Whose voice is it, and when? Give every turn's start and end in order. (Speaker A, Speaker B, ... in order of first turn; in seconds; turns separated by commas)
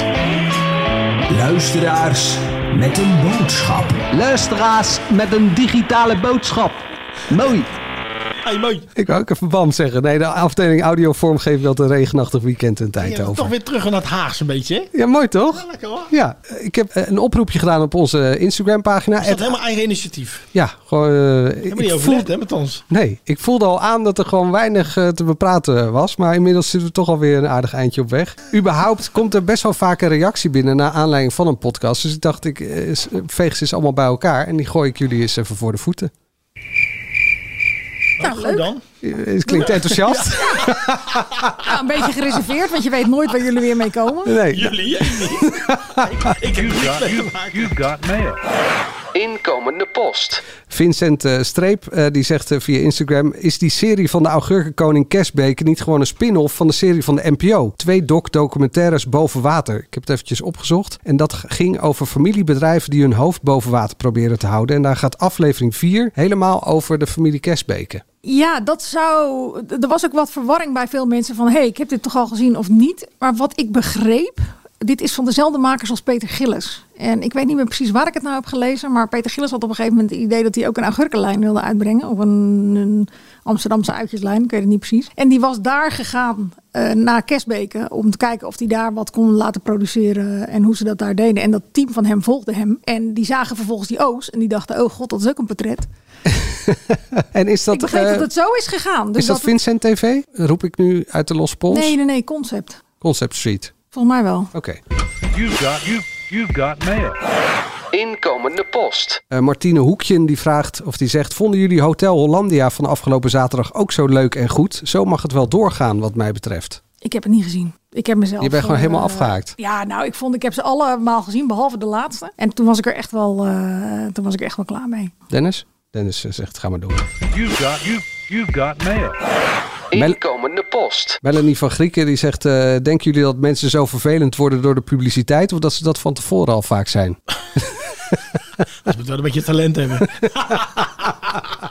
Speaker A: 1.3-7.7, Speaker B: 8.4-8.9, Speaker C: 8.9-13.5, Speaker B: 13.0-14.9, Speaker C: 14.9-19.6, Speaker B: 15.5-16.1, Speaker B: 19.2-20.5, Speaker C: 20.5-22.3, Speaker B: 21.7-22.8, Speaker C: 22.9-36.1, Speaker B: 38.2-38.8, Speaker D: 38.2-38.7, Speaker C: 39.0-41.2, Speaker B: 39.6-41.6, Speaker D: 41.6-44.4, Speaker C: 44.2-45.8, Speaker B: 44.5-47.7, Speaker E: 46.5-48.4, Speaker F: 49.1-50.4, Speaker C: 50.7-68.0, Speaker D: 68.2-95.9, Speaker C: 96.3-98.3, Speaker D: 97.7-99.5, Speaker C: 99.2-102.0, Speaker D: 101.7-102.8, Speaker C: 103.0-103.7, Speaker D: 103.9-104.5, Speaker C: 104.5-104.8, Speaker E: 105.3-107.2, Speaker F: 107.9-109.2, Speaker C: 109.3-116.8, Speaker D: 117.0-125.1, Speaker C: 118.4-119.5, Speaker C: 125.3-127.1, Speaker E: 127.3-129.2, Speaker F: 129.9-131.2, Speaker C: 129.9-130.2, Speaker C: 131.2-138.2, Speaker B: 138.8-141.1